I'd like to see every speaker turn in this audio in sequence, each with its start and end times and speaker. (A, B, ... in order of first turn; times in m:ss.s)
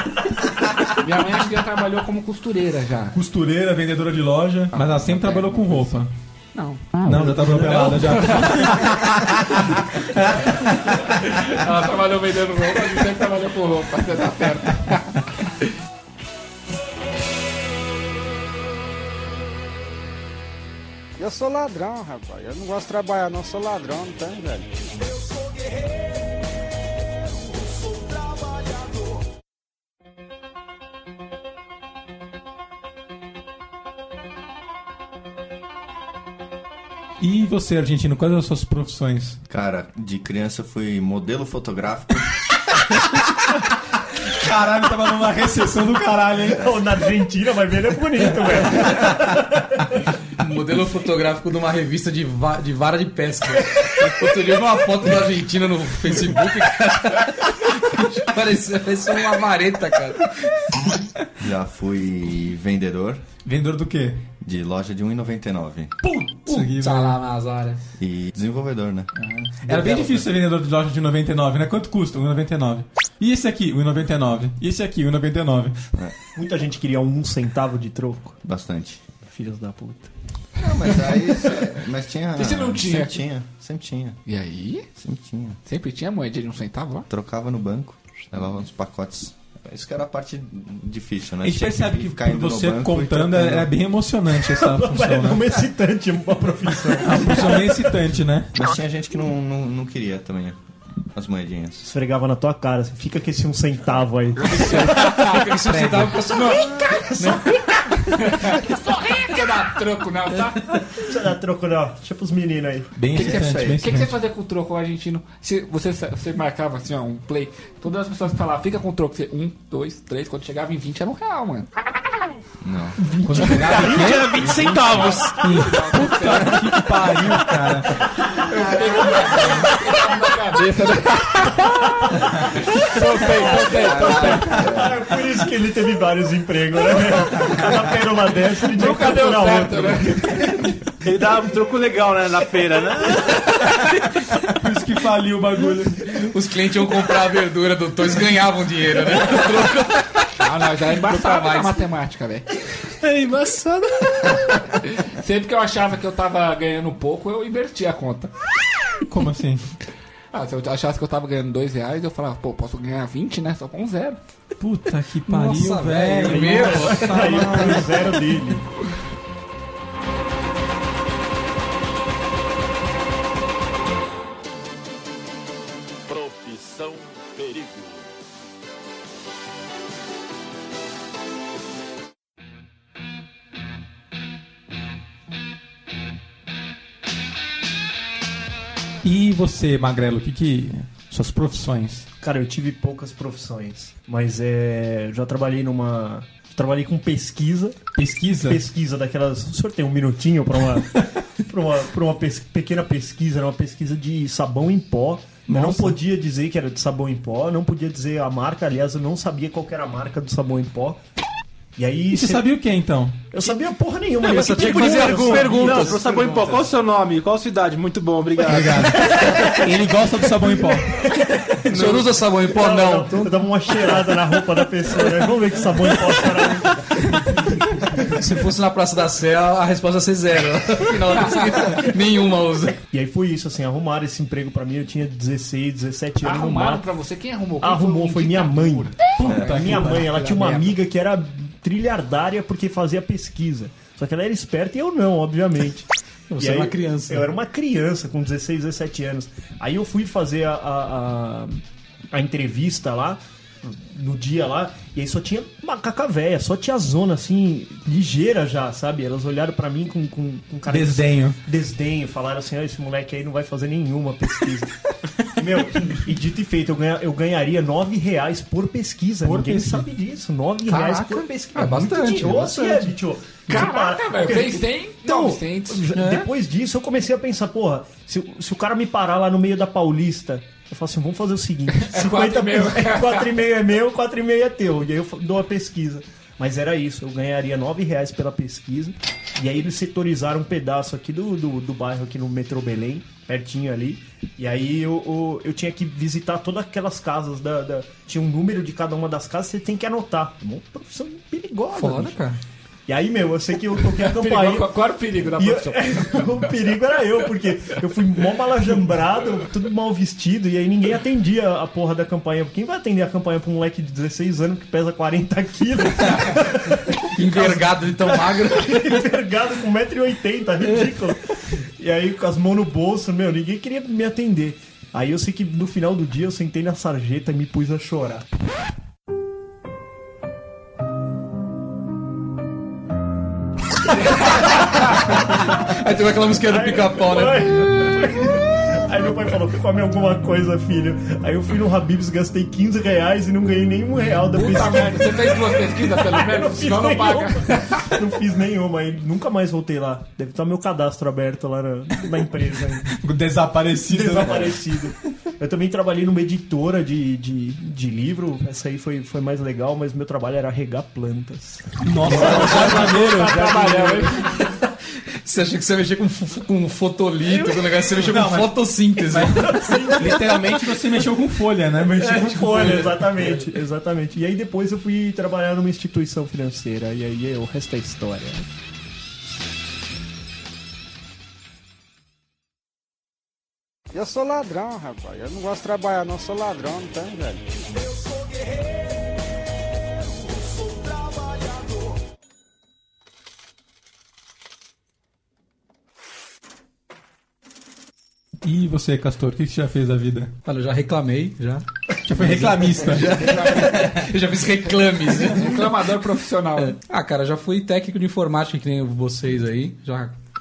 0:00.9-0:03.2 A
0:03.1-0:06.1 B
0:04.7-0:05.9 A
0:06.5-0:09.3 A
0:07.0-0:11.2 B
0:07.7-0:08.0 C
0:10.0-0:15.3 A
0:21.2-0:24.9 D
0:37.2-0:39.4 B
0:39.5-0:42.3 E
0:44.4-0:46.7 B
0:46.6-0:49.8 F
0:50.4-1:00.3 C
1:01.4-1:03.3 E
1:03.4-1:04.2 B
1:04.4-1:06.0 E
1:06.0-1:07.8 C
1:06.4-1:07.2 B
1:08.0-1:09.1 E
1:09.2-1:10.3 C
1:09.6-1:15.8 B
1:16.4-1:18.4 F
1:18.4-1:19.0 E
1:19.2-1:20.1 F
1:20.6-1:24.2 E
1:22.4-1:23.2 A
1:24.3-1:24.9 A
1:25.0-1:25.6 E
1:25.7-1:27.1 A
1:27.1-1:33.7 E
1:31.4-1:35.5 B
1:34.4-1:38.0 F
1:37.0-1:38.5 B
1:38.6-1:40.6 E
1:41.1-1:41.9 E
1:41.8-1:45.2 F
1:44.5-1:47.5 C
1:44.5-1:45.5 A
1:45.7-1:46.3 B
1:46.3-1:50.9 A
1:51.0-1:52.9 F
1:53.0-1:54.2 B
1:53.1-1:53.8 E
1:53.1-2:01.7 A
2:02.6-2:03.0 E
2:03.2-2:03.9 F
2:03.2-2:08.0 B
2:03.4-2:05.5 G
2:04.8-2:06.9 A
2:08.2-2:14.8 A
2:13.4-2:20.6 F
2:18.7-2:20.6 A
2:21.0-2:23.8 G
2:24.5-2:26.3 B
2:26.1-2:30.1 C
2:30.4-2:32.5 A
2:31.1-2:31.7 C
2:33.0-2:34.4 G
2:34.8-2:38.3 A
2:39.1-2:39.6 B
2:40.3-2:44.2 A
2:44.6-2:48.2 B
2:45.3-2:47.6 C
2:46.2-2:48.6 F
2:56.1-2:58.2 H
3:09.0-3:12.1 B
3:12.2-3:31.0 F
3:18.0-3:18.6 B
3:25.5-3:26.0 B
3:31.8-3:32.5 F
3:32.1-3:33.3 B
3:33.3-3:36.7 F
3:34.2-3:39.2 G
3:34.2-3:36.0 C
3:38.4-3:41.0 B
3:41.7-3:42.1 G
3:41.7-3:43.3 C
3:42.5-3:48.1 F
3:48.1-3:52.8 C
3:51.2-3:51.5 A
3:52.9-3:56.8 F
3:56.2-4:00.8 A
3:57.6-5:02.2 F
3:59.2-4:00.1 B
4:06.3-4:07.3 C
4:20.7-4:21.4 B
4:29.2-4:29.9 B
4:30.7-4:33.0 C
4:33.5-4:35.9 A
4:41.9-4:43.4 A
5:01.7-5:02.4 C
5:02.9-5:04.7 F
5:04.0-5:06.5 A
5:05.4-5:28.2 F
5:17.1-5:19.0 C
5:35.1-5:37.9 C
5:36.5-5:53.0 F
5:44.2-5:47.9 A
5:52.9-5:54.6 B
5:53.9-6:04.4 F
6:01.8-6:03.5 B
6:02.1-6:03.0 G
6:02.5-6:04.3 A
6:04.2-6:09.8 C
6:07.4-6:12.2 B
6:09.5-6:10.4 F
6:11.7-6:18.5 F
6:12.0-6:13.4 C
6:23.9-6:28.0 D
6:38.4-6:40.3 B
6:40.4-6:45.7 C
6:42.0-6:43.4 B
6:43.1-6:44.0 A
6:45.3-6:46.8 A
6:46.6-6:50.2 C